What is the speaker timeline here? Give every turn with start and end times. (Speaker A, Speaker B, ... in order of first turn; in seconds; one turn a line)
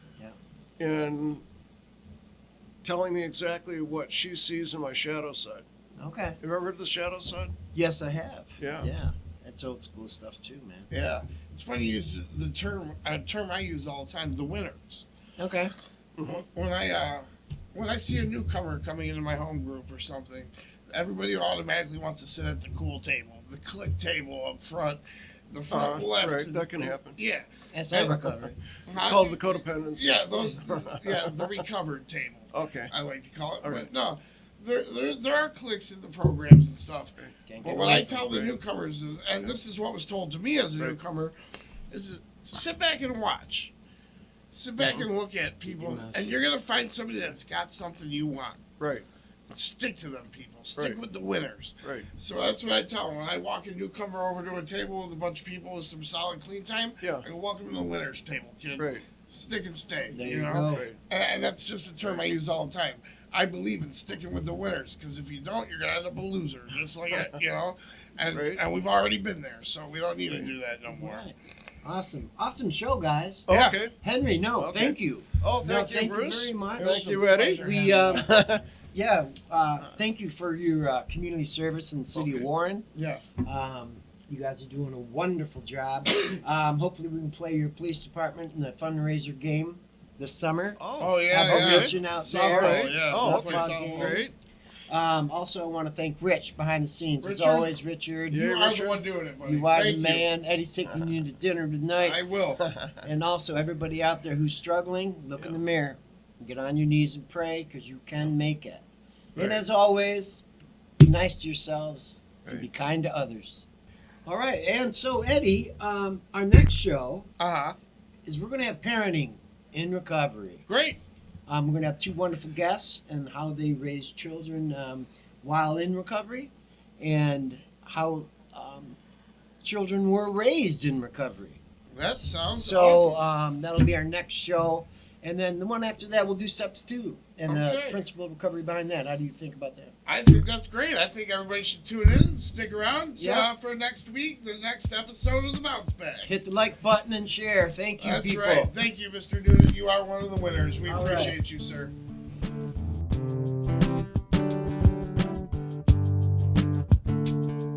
Speaker A: 0.8-1.4
Speaker A: 2.8-5.6
Speaker B: 6.0-6.4
Speaker A: 6.4-7.6
Speaker B: 7.7-10.9
Speaker A: 8.6-8.9
Speaker C: 10.9-15.1
Speaker B: 15.4-15.7
Speaker A: 16.2-16.4
Speaker C: 16.3-28.2
Speaker A: 25.7-27.2
Speaker B: 27.7-28.6
Speaker A: 28.2-31.6
Speaker C: 28.9-29.4
Speaker C: 29.9-41.3
Speaker A: 32.5-32.9
Speaker A: 33.6-33.9
Speaker B: 37.5-38.5
Speaker C: 41.9-43.7
Speaker C: 44.5-48.6
Speaker B: 45.7-46.4
Speaker A: 48.8-49.0
Speaker C: 49.5-71.2
Speaker A: 51.8-52.1
Speaker A: 57.0-57.2
Speaker A: 58.8-59.0
Speaker B: 60.1-60.9
Speaker A: 60.7-61.0
Speaker A: 68.3-68.6
Speaker B: 70.9-94.2
Speaker A: 73.5-73.9
Speaker C: 73.5-73.8
Speaker A: 74.6-78.6
Speaker C: 76.8-78.3
Speaker A: 82.2-82.5
Speaker C: 82.9-83.2
Speaker A: 90.8-94.3
Speaker C: 91.0-94.2
Speaker B: 94.9-98.5
Speaker C: 97.2-97.8
Speaker A: 98.3-99.0
Speaker C: 98.3-100.3
Speaker B: 99.4-102.2
Speaker C: 102.0-102.7
Speaker A: 102.7-103.0
Speaker B: 103.0-108.8
Speaker C: 109.3-109.6
Speaker B: 109.3-110.4
Speaker B: 111.0-113.6
Speaker B: 114.2-117.3
Speaker C: 117.4-117.8
Speaker B: 118.2-120.6
Speaker C: 120.7-121.0
Speaker B: 121.5-129.0
Speaker B: 129.6-131.6
Speaker C: 131.9-133.2
Speaker B: 132.4-139.9
Speaker C: 137.5-138.0
Speaker C: 140.1-146.3
Speaker B: 143.2-143.5
Speaker B: 146.2-148.7
Speaker C: 148.0-151.9
Speaker B: 150.8-151.4